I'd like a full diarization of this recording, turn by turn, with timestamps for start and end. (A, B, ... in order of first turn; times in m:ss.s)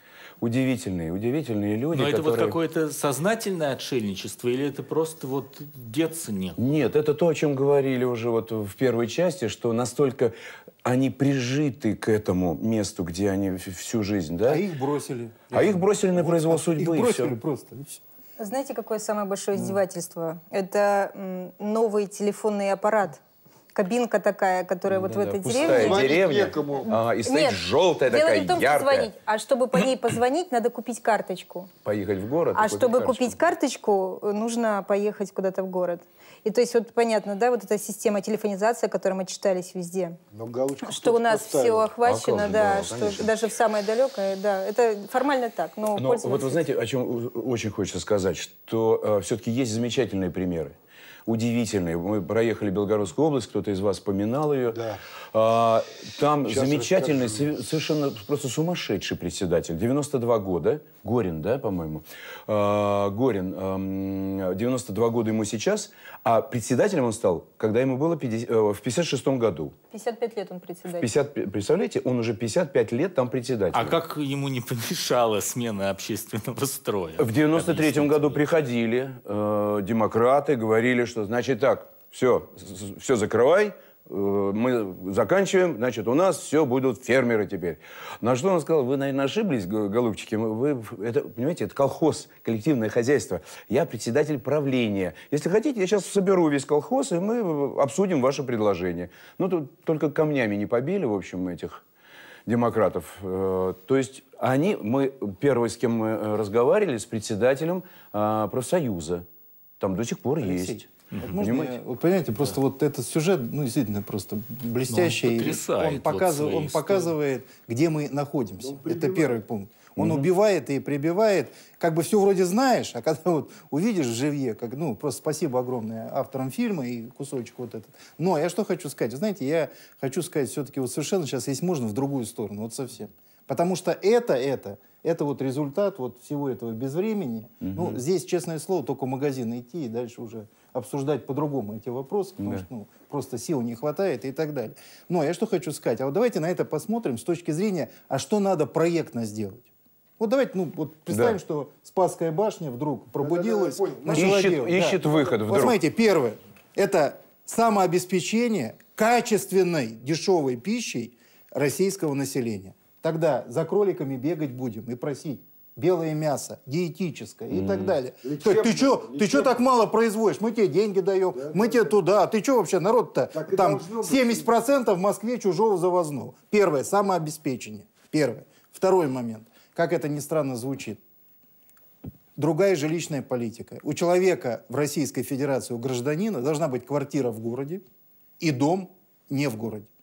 0:00.4-0:02.6 A
0:01.9-0:06.6 B
0:06.6-0:14.6 A
0:14.4-0:18.0 C
0:15.5-0:17.3 A
0:18.4-0:23.2 D
0:23.7-0:26.2 D
0:24.9-0:29.1 A
0:25.5-0:26.9 E
0:26.9-0:31.7 D
0:31.8-0:33.4 A
0:32.5-0:40.2 D
0:40.3-0:41.9 E
0:40.8-0:46.7 D
0:42.0-0:43.4 A
0:46.0-0:50.8 A
0:51.3-1:09.7 A
0:54.7-0:55.0 E
0:56.4-0:57.7 E
1:09.9-1:11.1 D
1:10.9-1:14.0 A
1:13.7-1:18.4 B
1:17.2-1:41.8 A
1:42.5-1:49.2 A
1:49.8-1:51.8 A
1:50.4-2:29.7 C
1:51.1-1:51.4 B
1:54.9-1:57.1 B
1:58.6-1:59.4 E
2:00.0-2:00.3 A
2:17.6-2:18.0 A
2:22.4-2:22.7 A
2:30.2-3:01.0 C
2:31.1-2:31.4 A
2:33.2-2:35.4 E
2:34.1-2:35.8 A
2:47.5-2:48.0 A
2:48.2-2:49.6 E
2:51.4-2:51.9 E
2:53.3-2:54.5 E
3:02.4-3:07.8 C
3:08.4-3:09.9 C